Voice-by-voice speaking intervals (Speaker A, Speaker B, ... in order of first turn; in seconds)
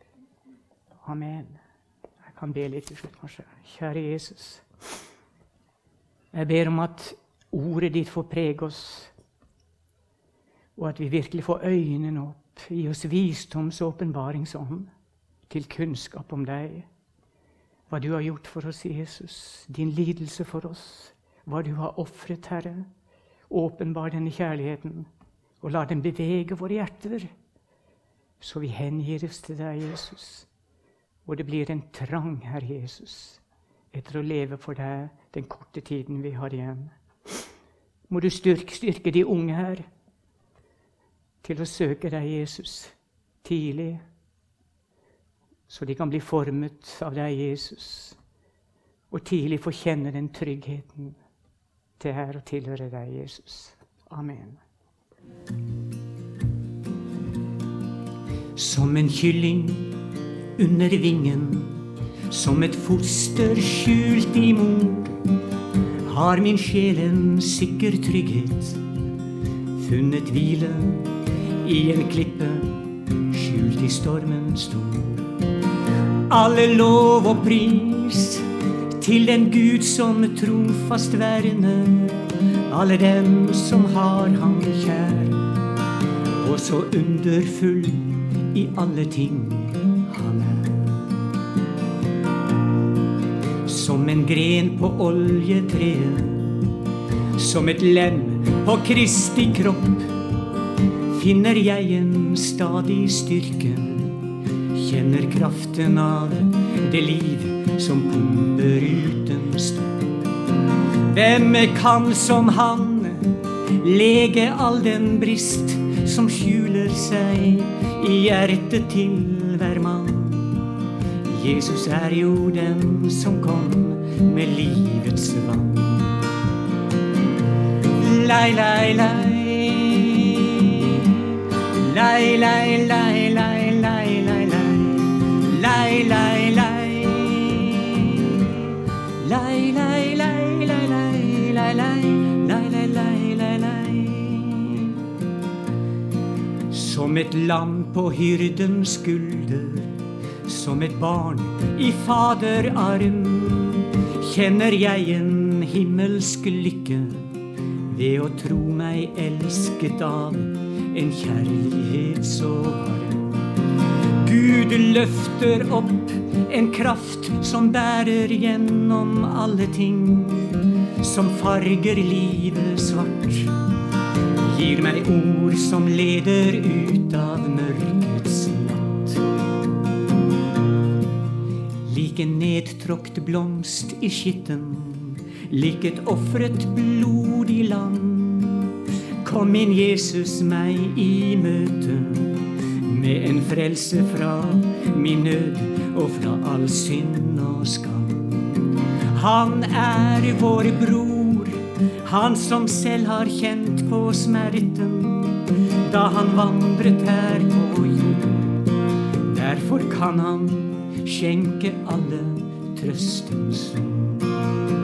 Speaker A: 1.0-1.6, 2.2-4.6, 6.3-9.1, 10.8-14.9, 15.5-16.9, 17.9-22.9, 23.5-25.1, 25.6-27.3, 28.4-30.5, 31.2-33.4, 33.9-37.4, 38.1-39.9, 41.4-44.0, 45.7-48.2, 49.1-51.2, 52.0-54.6, 58.5-60.0, 60.6-65.3, 66.0-68.8, 69.7-75.3, 76.3-85.5, 86.4-91.2, 93.6-96.7, 97.3-100.1, 101.1-109.9, 111.1-120.7, 121.2-126.3, 127.9-145.0, 146.7-163.3, 164.2-173.5, 174.4-179.2, 181.8-208.5, 209.2-214.4